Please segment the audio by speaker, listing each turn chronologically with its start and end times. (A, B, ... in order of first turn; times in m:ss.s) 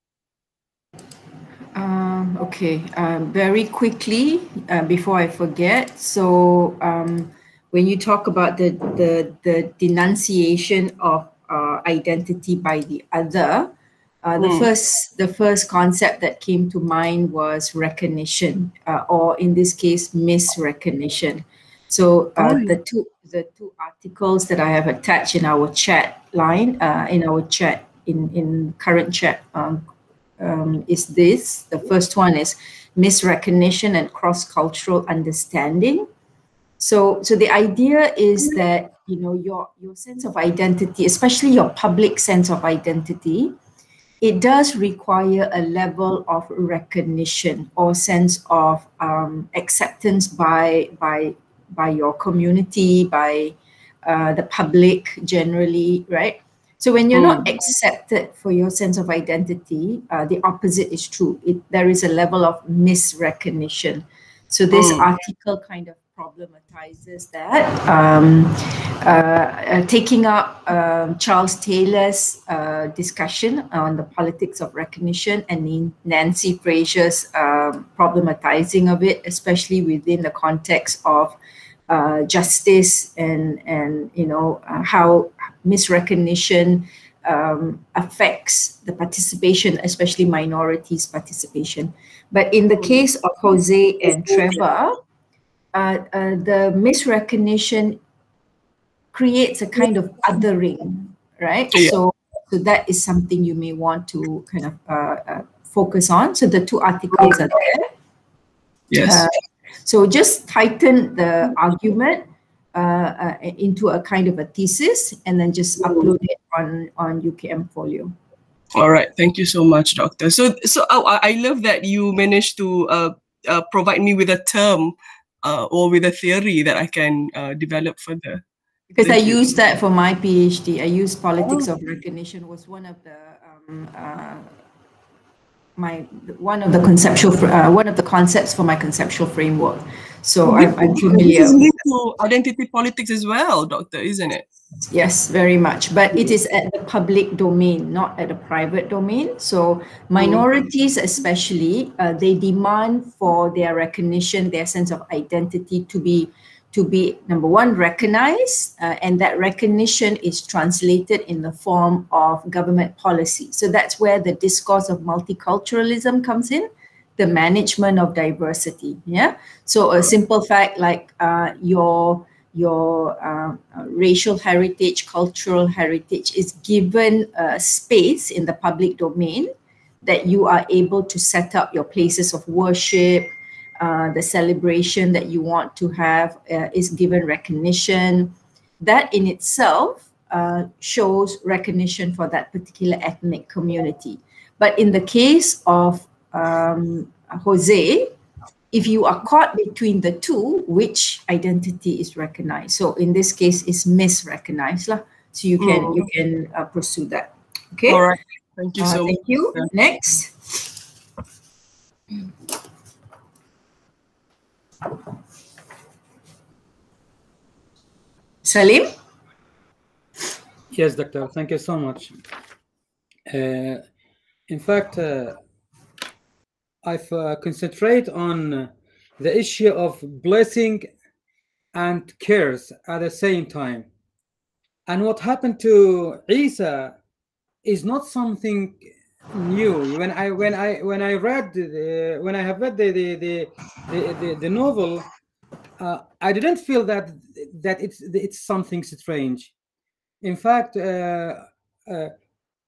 0:01.8-0:13.7 A
0:14.2-0:29.8 A
0:14.4-0:14.7 B
0:22.4-0:22.8 B
0:30.4-0:36.1 A
0:36.8-0:43.5 A
0:44.2-1:21.4 A
0:57.1-0:57.6 B
1:04.7-1:05.1 B
1:21.9-1:34.9 A
1:34.1-1:34.5 B
1:35.7-1:38.0 A
1:39.1-1:47.9 A
1:48.9-1:49.2 B
1:49.0-1:49.3 A
1:49.8-1:58.1 A
1:58.8-2:08.4 B
2:08.9-2:14.5 A
2:09.0-2:09.5 B
2:11.4-2:11.7 B
2:15.8-2:21.6 A
2:20.4-2:24.5 B
2:24.9-2:59.5 A
2:30.2-2:30.5 B
3:00.0-3:18.1 A
3:18.7-3:28.0 A
3:25.6-3:26.1 B
3:27.9-3:29.7 B
3:28.8-3:30.3 A
3:38.4-3:38.9 A
3:40.7-3:42.1 C
3:43.3-3:43.8 C
3:44.5-3:45.4 C
3:46.8-3:50.9 C
3:51.7-3:53.9 C
3:54.9-3:57.0 C
3:57.6-4:05.1 C
4:05.8-4:09.5 C
4:10.2-4:12.1 C